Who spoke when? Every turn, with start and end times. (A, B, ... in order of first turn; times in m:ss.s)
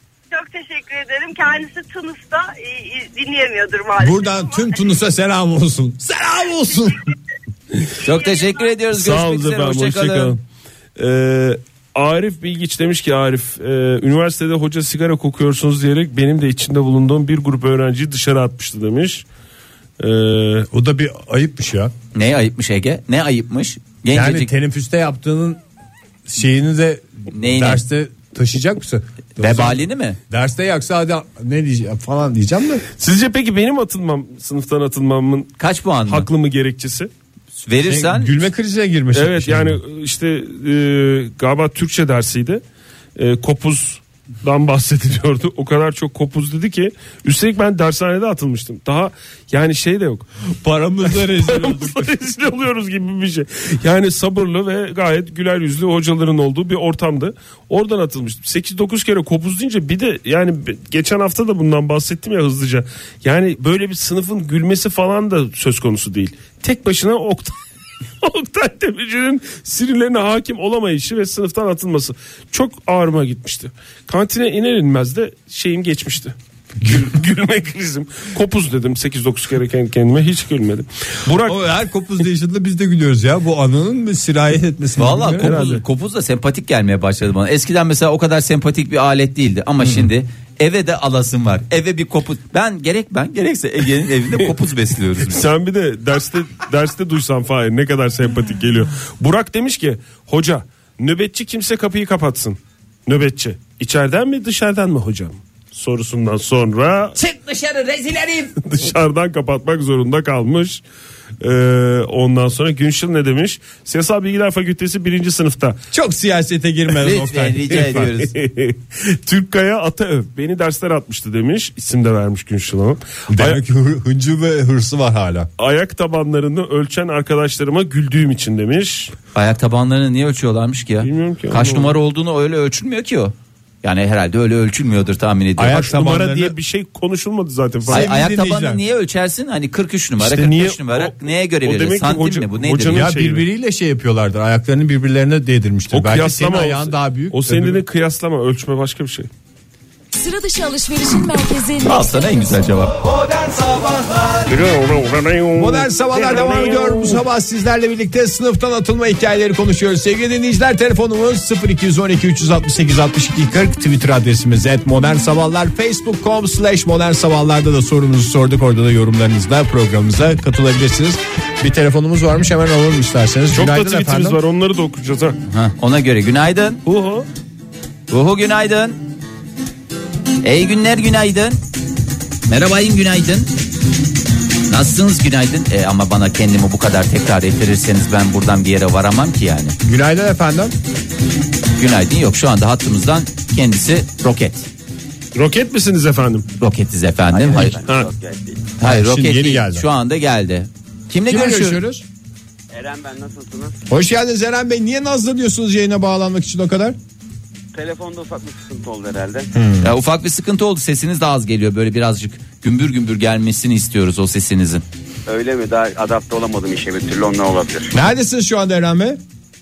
0:00.3-0:04.8 A
0:04.0-0:07.1 B
0:08.0-0:08.7 A
0:08.0-0:10.4 C
0:08.9-0:10.4 D
0:11.0-0:19.2 D
0:20.0-0:20.7 D
0:20.7-0:21.9 B
0:22.1-0:24.5 C
0:24.1-0:25.6 B
0:26.3-0:32.8 B
0:27.3-0:27.8 C
0:29.4-0:30.2 C
0:33.0-0:35.5 D
0:35.6-0:36.3 C
0:36.1-0:37.1 D
0:37.6-0:38.4 C
0:37.8-0:39.8 B
0:39.1-0:42.6 D
0:43.2-0:50.3 D
0:50.6-0:52.1 B
0:51.1-1:07.6 D
1:08.2-1:21.6 D
1:21.4-1:25.6 B
1:25.0-1:35.5 C
1:25.4-1:25.8 D
1:35.2-1:47.2 D
1:47.2-1:48.6 C
1:48.6-1:50.8 D
1:51.4-1:55.8 D
1:55.9-1:58.1 B
1:57.0-1:58.3 C
1:57.7-2:03.6 D
2:03.3-2:05.5 B
2:05.6-2:09.1 D
2:09.4-2:15.9 C
2:11.0-2:11.9 D
2:15.6-2:16.6 B
2:15.7-2:18.1 D
2:17.9-2:18.8 B
2:17.9-2:23.1 C
2:20.2-2:23.4 D
2:22.9-2:27.8 B
2:25.9-2:29.3 D
2:30.1-2:32.2 E
2:31.7-2:33.1 C
2:33.8-2:34.3 C
2:34.5-2:37.2 D
2:35.6-2:54.4 B
2:53.5-2:55.4 D
2:55.5-2:56.8 C
2:56.9-2:57.3 D
2:58.1-2:59.0 C
3:00.4-3:01.6 C
3:02.5-3:03.5 C
3:04.7-3:09.8 C
3:09.8-3:10.8 B
3:11.8-3:14.7 C
3:15.4-3:16.5 D
3:16.6-3:17.8 C
3:17.3-3:18.6 F
3:18.8-3:21.8 C
3:18.8-3:19.9 B
3:21.3-3:22.0 B
3:22.7-3:23.8 F
3:23.9-3:27.0 B
3:27.7-3:29.5 F
3:29.5-3:29.9 B
3:29.8-3:34.8 C
3:35.3-3:37.9 F
3:37.9-3:39.2 B